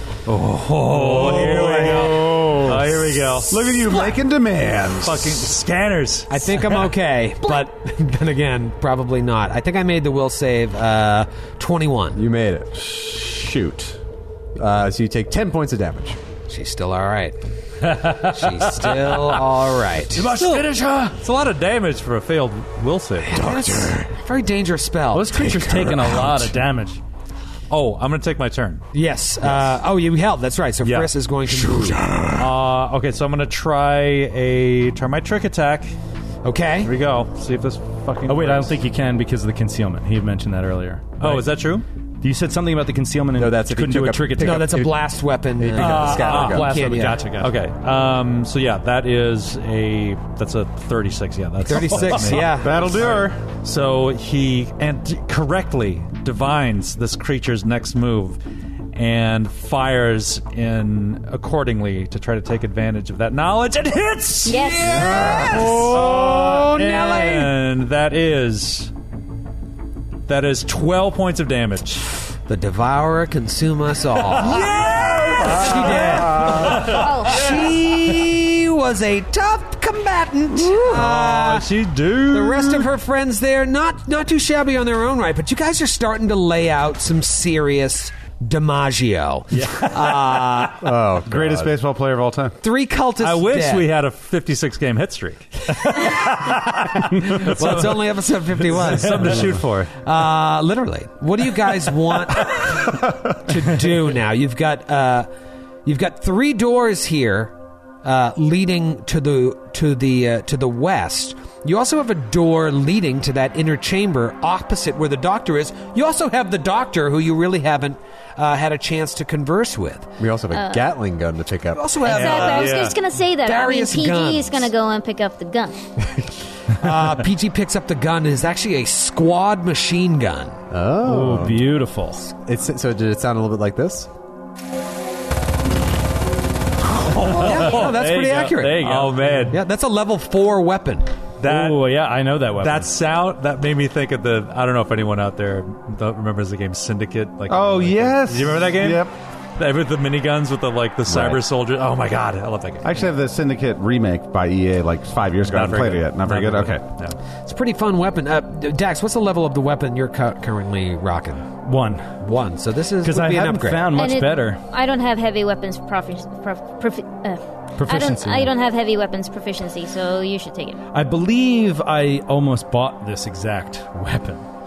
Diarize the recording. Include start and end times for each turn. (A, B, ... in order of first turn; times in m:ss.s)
0:00.3-0:03.8 A
0:01.0-0:02.2 B
0:01.0-0:02.7 C
0:03.4-0:05.5 C
0:05.0-0:06.9 A
0:06.3-0:12.2 B
0:12.1-0:12.7 D
0:12.8-0:14.0 C
0:14.6-0:16.2 D
0:16.5-0:17.4 B
0:17.8-0:19.3 E
0:17.9-0:20.3 B
0:20.1-0:21.2 E
0:20.3-0:23.4 A
0:23.2-0:26.3 B
0:23.4-0:24.0 D
0:25.1-0:27.0 E
0:27.7-0:28.8 A
0:28.9-0:32.0 B
0:30.8-0:31.1 A
0:31.5-0:32.5 D
0:32.3-0:35.9 A
0:36.4-0:36.9 B
0:36.8-0:38.8 A
0:38.3-0:41.5 E
0:41.2-0:41.8 A
0:42.2-0:44.8 E
0:43.3-0:46.7 D
0:44.4-0:47.3 B
0:45.8-0:47.5 E
0:46.2-0:46.6 A
0:47.4-0:52.6 A
0:51.6-0:53.2 B
0:52.5-0:53.4 C
0:53.5-0:58.4 A
0:58.9-1:08.9 A
1:04.4-1:05.4 F
1:05.0-1:07.5 B
1:10.3-1:12.1 A
1:12.5-1:21.7 B
1:14.3-1:17.7 A
1:16.9-1:17.5 F
1:20.7-1:22.9 A
1:22.3-1:30.9 B
1:29.5-1:29.9 E
1:30.8-1:31.8 D
1:31.2-1:32.6 C
1:32.6-1:33.9 B
1:33.2-1:39.9 A
1:35.8-1:36.5 B
1:37.2-1:45.3 B
1:37.6-1:37.9 E
1:38.7-1:39.4 E
1:45.8-2:00.1 B
2:00.2-2:02.0 D
2:00.5-2:00.9 F
2:01.7-2:04.7 B
2:02.1-2:03.0 A
2:02.1-2:05.8 F
2:06.7-2:10.6 B
2:10.7-2:11.7 D
2:11.0-2:12.2 E
2:12.4-2:14.1 D
2:17.0-2:19.5 E
2:17.0-2:18.1 A
2:17.2-2:18.9 B
2:18.7-2:19.6 A
2:19.5-2:21.1 B
2:21.4-2:21.8 A
2:21.4-2:22.9 E
2:22.6-2:33.1 A
2:27.5-2:29.1 C
2:31.1-2:31.4 C
2:32.8-2:36.8 C
2:35.4-2:37.2 A
2:37.4-2:41.5 B
2:41.6-2:42.2 E
2:42.2-2:44.0 B
2:43.0-2:44.6 E
2:43.9-2:50.8 F
2:47.8-2:48.5 E
2:50.9-2:54.4 E